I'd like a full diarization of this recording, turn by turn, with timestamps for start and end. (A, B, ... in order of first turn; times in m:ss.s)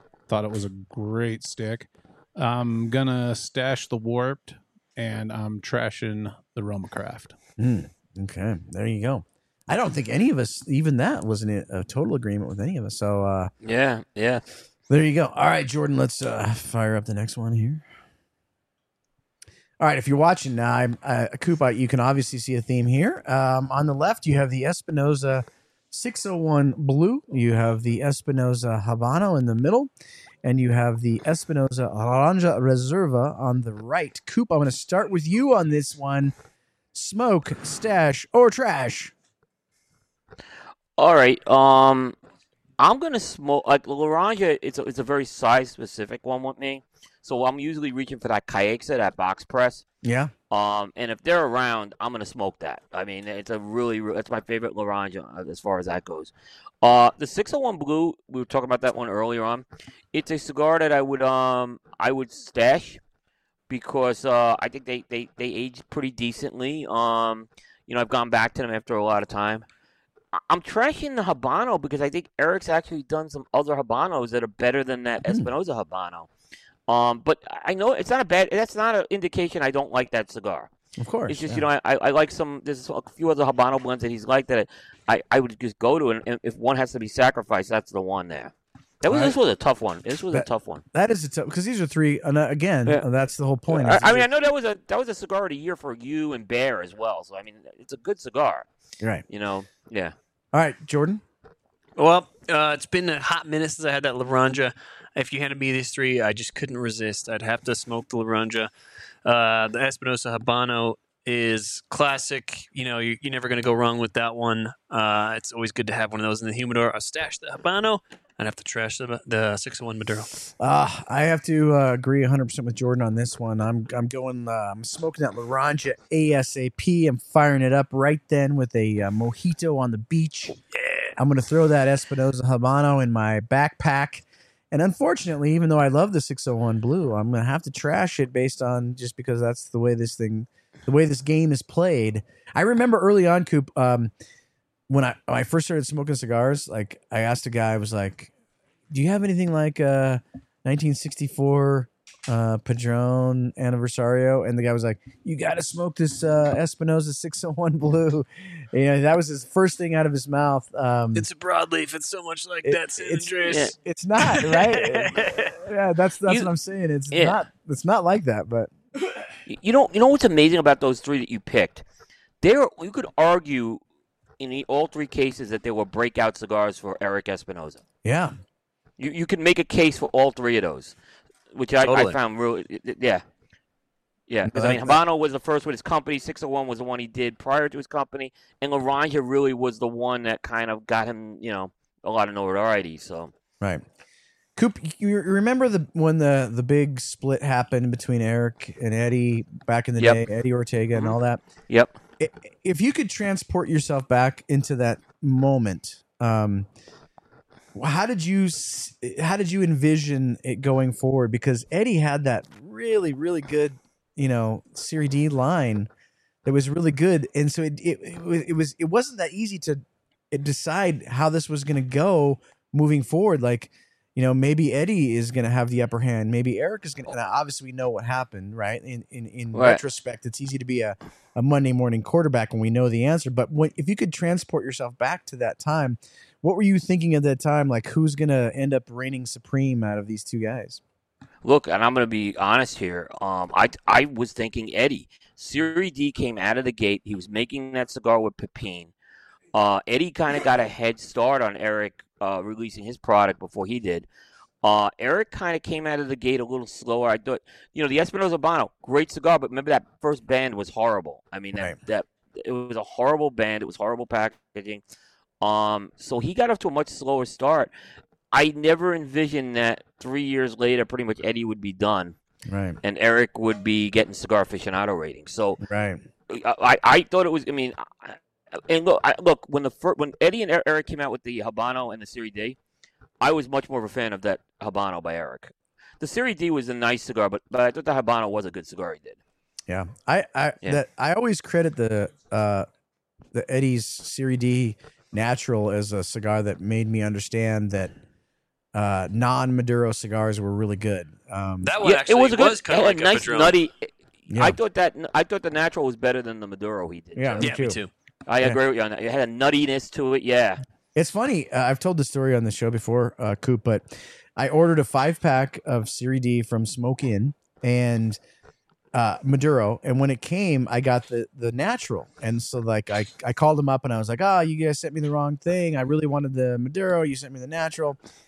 0:00.3-0:07.3 A
0:07.6-0:13.5 B
0:13.6-0:14.4 C
0:14.9-0:17.8 B
0:19.8-0:29.9 B
0:30.4-0:36.3 B
0:36.9-0:39.1 B
0:41.0-0:42.2 C
0:42.8-0:49.8 C
0:50.0-0:50.3 B
0:50.5-1:03.0 C
1:03.7-1:09.6 C
1:10.3-1:16.3 C
1:16.9-1:20.7 C
1:21.0-1:21.6 B
1:21.3-1:30.8 C
1:29.1-1:29.4 B
1:30.3-1:34.3 B
1:33.7-1:38.6 C
1:39.3-1:40.1 C
1:40.5-1:41.2 B
1:42.0-1:48.7 D
1:49.2-2:00.3 D
2:00.6-2:10.6 B
2:10.7-2:11.2 D
2:11.2-2:24.1 B
2:24.9-2:28.3 B
2:28.9-2:41.3 B
2:41.1-2:45.5 D
2:42.6-2:49.2 B
2:47.1-2:47.4 C
2:49.5-2:51.8 C
2:52.4-2:53.8 C
2:54.4-2:57.8 C
2:58.0-2:58.3 B
2:59.0-3:00.9 C
3:01.5-3:03.2 C
3:01.8-3:02.2 D
3:04.3-3:13.3 C
3:04.5-3:05.0 B
3:14.6-3:21.4 B
3:20.0-3:20.2 C
3:22.2-3:26.7 B
3:27.7-3:35.9 B
3:36.4-4:00.8 B
3:49.5-3:49.8 C
4:01.4-4:08.9 C
4:09.5-4:14.1 C
4:14.6-4:24.8 C
4:25.4-4:27.7 C
4:28.3-4:32.2 C
4:32.4-4:32.8 B
4:32.8-4:35.6 C
4:35.6-4:36.0 B
4:36.3-4:42.6 C
4:43.2-4:49.2 C
4:49.7-4:52.7 B
4:53.3-4:57.9 B
4:58.7-5:01.7 B
5:01.6-5:03.6 D
5:01.8-5:07.5 C
5:04.3-5:04.6 B
5:07.1-5:07.8 B
5:07.4-5:07.9 D
5:08.3-5:10.6 C
5:10.9-5:18.2 B
5:18.9-5:28.0 B